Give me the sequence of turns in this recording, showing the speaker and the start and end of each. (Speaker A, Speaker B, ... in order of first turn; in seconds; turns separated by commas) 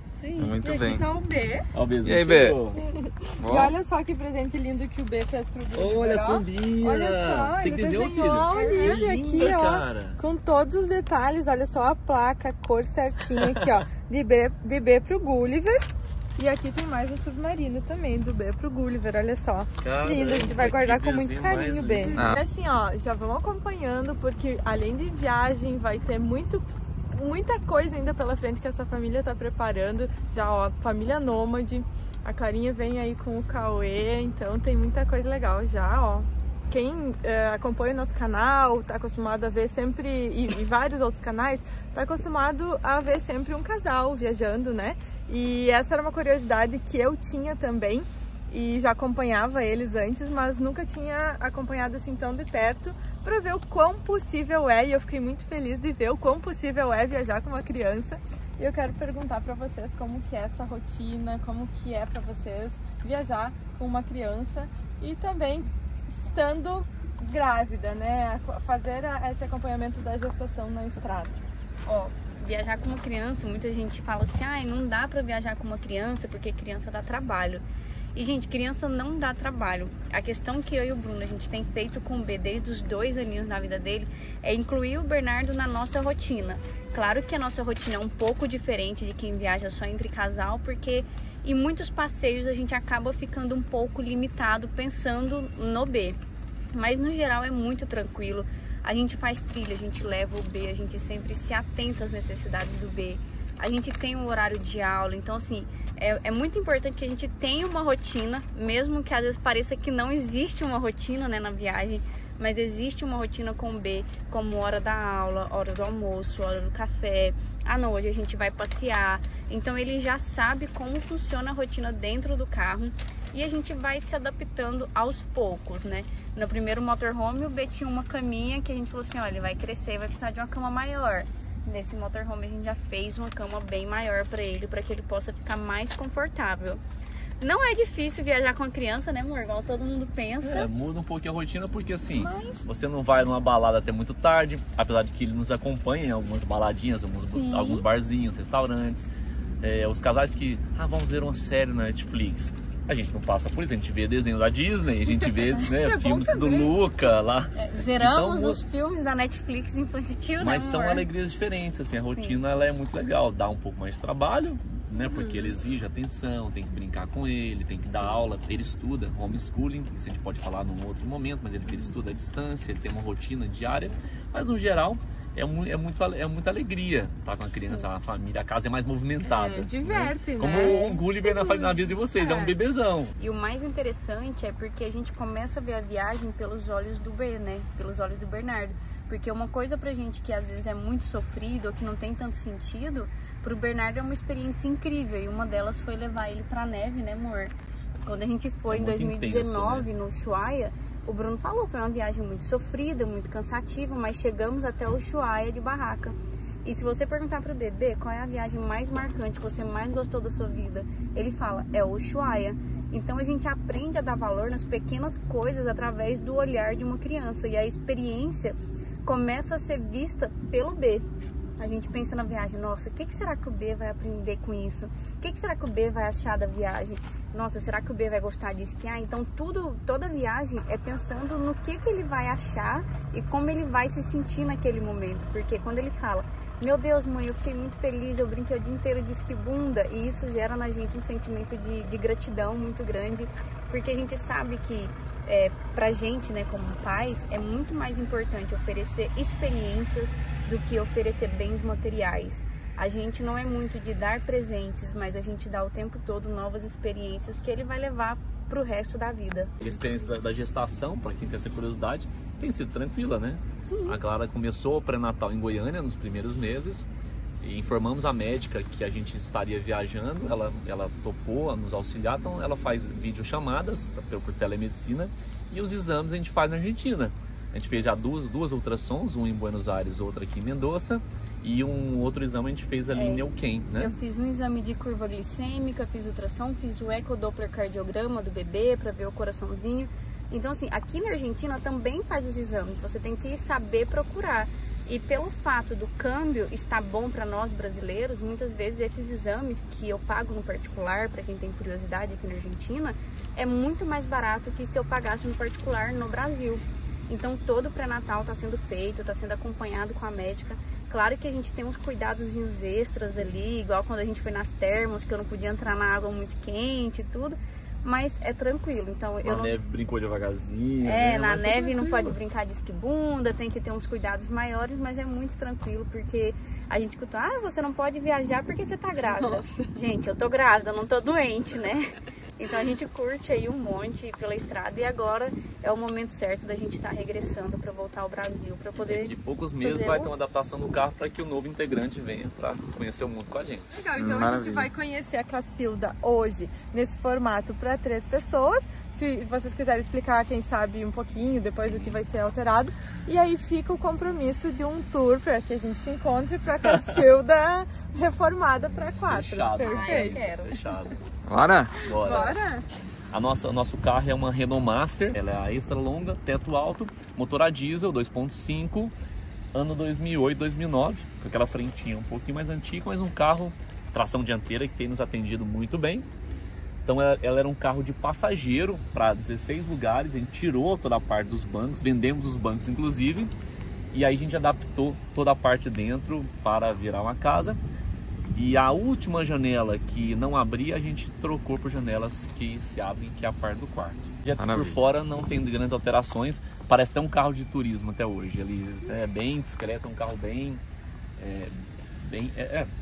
Speaker A: 0.2-0.5, Speaker B: 0.4-1.0, Speaker C: 0.4-1.6, Speaker D: 1.7-2.8, Speaker B: 2.0-2.6, Speaker C: 2.7-71.4, Speaker B: 3.4-3.7, Speaker D: 5.7-10.2, Speaker A: 8.5-9.0, Speaker D: 19.8-22.4, Speaker A: 71.8-77.6, Speaker A: 78.1-96.2, Speaker A: 96.7-136.8, Speaker A: 137.4-140.7, Speaker D: 140.4-158.6, Speaker A: 142.1-142.6, Speaker A: 147.3-147.9, Speaker C: 155.7-156.7, Speaker A: 157.6-161.1, Speaker D: 160.4-183.1, Speaker A: 162.1-162.4, Speaker A: 165.1-165.5, Speaker C: 179.2-180.8, Speaker A: 180.5-181.0, Speaker C: 182.2-182.5, Speaker A: 183.2-221.1, Speaker D: 198.7-199.9, Speaker A: 221.6-259.5, Speaker D: 259.6-266.9, Speaker A: 263.6-264.0, Speaker D: 267.4-283.9, Speaker A: 282.9-319.6, Speaker D: 319.2-322.1, Speaker A: 320.8-340.1, Speaker D: 338.8-343.7, Speaker C: 343.7-360.2, Speaker B: 343.9-344.7, Speaker D: 351.5-352.0, Speaker D: 358.9-361.0, Speaker A: 359.6-360.7, Speaker B: 361.3-361.8, Speaker D: 361.8-362.4, Speaker C: 362.0-362.6, Speaker A: 362.1-362.3, Speaker D: 363.1-368.9, Speaker D: 369.5-376.1, Speaker D: 376.8-383.3, Speaker D: 383.9-387.6, Speaker D: 388.3-400.6, Speaker B: 394.4-394.8, Speaker D: 401.2-402.7